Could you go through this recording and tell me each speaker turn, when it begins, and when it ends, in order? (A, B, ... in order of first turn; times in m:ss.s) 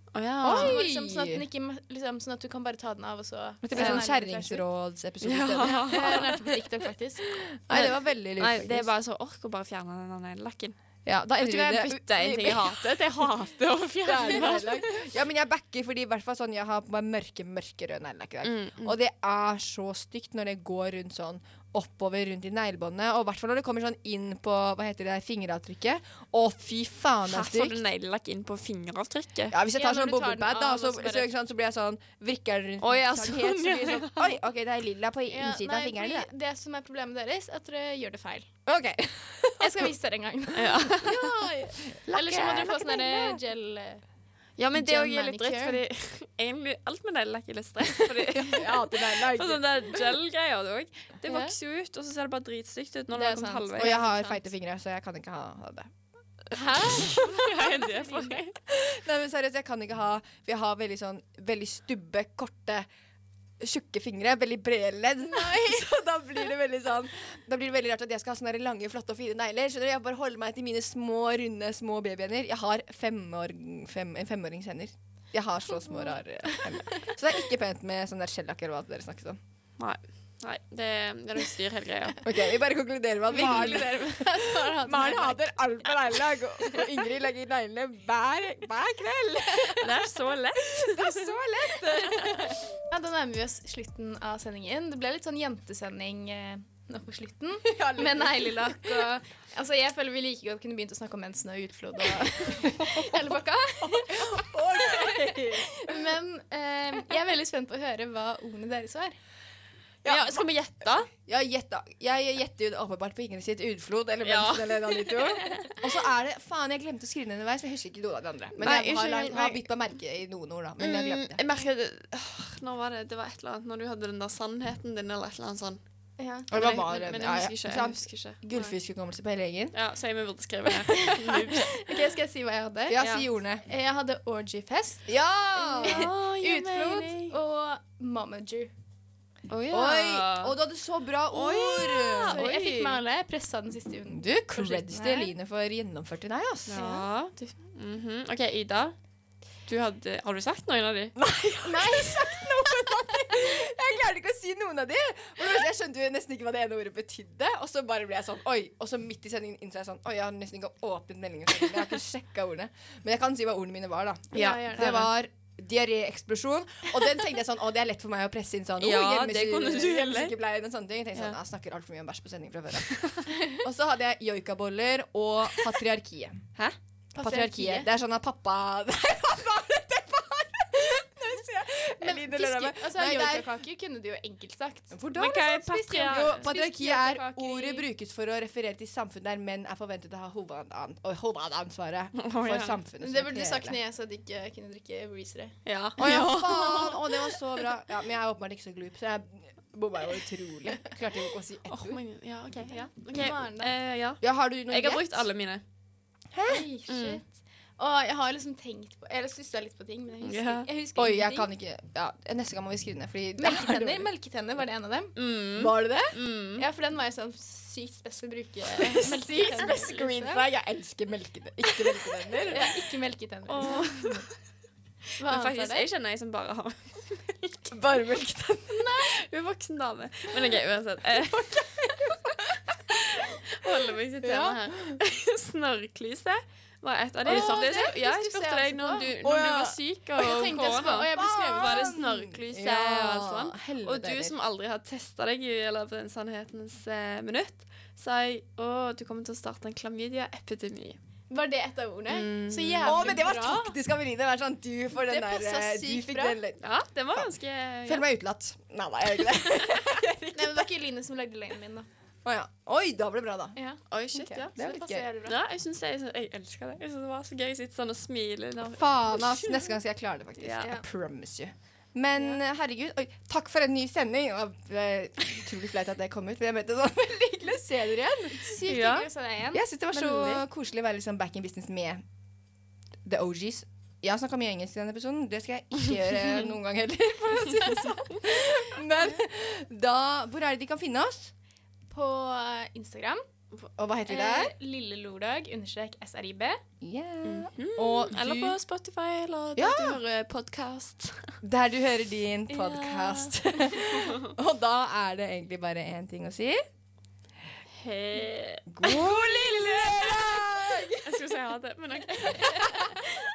0:00.1-0:00.8 A
0:00.4-0:01.4 B
0:00.5-0:04.6 C
0:03.6-0:06.4 B
0:03.8-0:04.0 A
0:05.2-0:06.3 A
0:05.6-0:07.3 C
0:07.4-0:08.9 B
0:07.7-0:10.8 A
0:11.1-0:13.3 B
0:11.4-0:15.1 A
0:14.0-0:27.8 B
0:18.4-0:19.0 A
0:27.3-0:29.6 A
0:29.5-0:36.3 B
0:29.7-0:31.3 C
0:32.8-0:34.4 A
0:35.3-0:38.5 C
0:38.7-0:39.9 B
0:39.6-0:44.0 C
0:40.5-0:41.2 A
0:40.9-0:43.4 B
0:44.6-0:53.9 A
0:44.7-0:45.8 C
0:48.2-0:50.0 B
0:51.3-0:51.5 C
0:53.1-0:54.4 C
0:53.8-0:55.9 B
0:56.5-0:58.4 C
0:56.5-0:57.1 B
0:56.9-0:58.6 A
0:58.7-1:02.9 B
1:03.6-1:19.4 B
1:16.5-1:17.0 C
1:19.8-1:22.2 A
1:22.2-1:30.0 B
1:23.3-1:25.5 C
1:23.3-1:24.0 A
1:29.7-1:31.3 A
1:30.7-1:32.7 B
1:31.8-1:49.2 C
1:37.7-1:39.1 B
1:42.7-1:43.0 B
1:43.8-1:46.0 B
1:50.0-1:50.4 B
1:50.0-1:51.1 A
1:51.1-2:01.4 B
1:54.2-1:55.7 A
1:58.6-1:59.6 A
2:00.8-2:05.8 A
2:06.2-2:06.5 C
2:06.5-2:09.8 B
2:06.5-2:08.8 A
2:09.7-2:11.7 A
2:10.9-2:13.0 C
2:12.9-2:13.6 B
2:13.0-2:13.3 A
2:13.7-2:18.7 C
2:15.1-2:16.1 B
2:15.8-2:17.4 A
2:19.5-2:20.6 A
2:19.7-2:22.4 B
2:21.3-2:23.0 A
2:22.3-2:25.3 C
2:24.1-2:26.9 B
2:26.7-2:29.0 A
2:26.7-2:27.0 C
2:29.7-2:31.1 A
2:31.2-3:03.5 B
2:31.6-2:33.3 C
2:44.3-2:45.1 C
2:44.4-2:45.1 A
2:48.8-2:50.3 A
2:52.8-2:53.3 A
2:57.2-2:57.9 C
3:02.0-3:07.9 C
3:04.9-3:13.8 B
3:05.2-3:06.5 A
3:12.2-3:12.8 A
3:13.0-3:15.6 C
3:15.7-3:17.6 A
3:16.0-3:22.0 B
3:21.7-3:25.6 A
3:23.1-3:23.7 C
3:24.2-3:25.3 B
3:26.3-3:26.7 B
3:26.5-3:31.5 C
3:26.9-3:27.2 A
3:30.2-3:30.7 A
3:31.0-3:34.1 B
3:33.4-3:35.2 C
3:35.2-3:36.7 A
3:35.6-3:36.1 B
3:36.6-3:40.4 C
3:38.9-3:42.7 B
3:42.4-3:43.8 C
3:43.5-3:44.3 A
3:43.7-3:44.2 B
3:45.2-3:45.9 C
3:45.2-3:47.7 A
3:47.7-3:48.9 B
3:48.7-3:49.2 C
3:49.0-3:51.7 A
3:51.3-3:55.0 B
3:53.2-4:11.0 A
3:57.2-3:59.1 C
3:57.3-3:57.9 B
3:59.2-3:59.8 B
4:00.2-4:01.8 C
4:01.1-4:04.4 B
4:11.3-4:13.8 C
4:12.1-4:13.1 A
4:12.8-4:16.6 B
4:15.0-4:16.4 C
4:16.6-4:18.0 A
4:17.9-4:20.7 B
4:20.3-4:21.9 C
4:22.2-4:23.6 B
4:23.6-4:25.4 C
4:23.9-4:24.5 A
4:24.6-4:25.1 B
4:25.3-4:29.8 A
4:28.7-4:38.6 B
4:30.4-4:30.7 A
4:38.4-4:40.4 C
4:38.7-4:39.1 A
4:39.5-4:42.0 B
4:43.0-4:51.3 B
4:51.9-4:53.2 C
4:53.8-4:54.5 B
4:54.1-4:56.6 C
4:56.8-4:58.6 B
4:57.2-5:01.3 A
4:59.6-5:00.0 B
5:01.4-5:06.6 B
5:02.6-5:04.3 A
5:07.8-5:13.0 A
5:08.7-5:11.3 B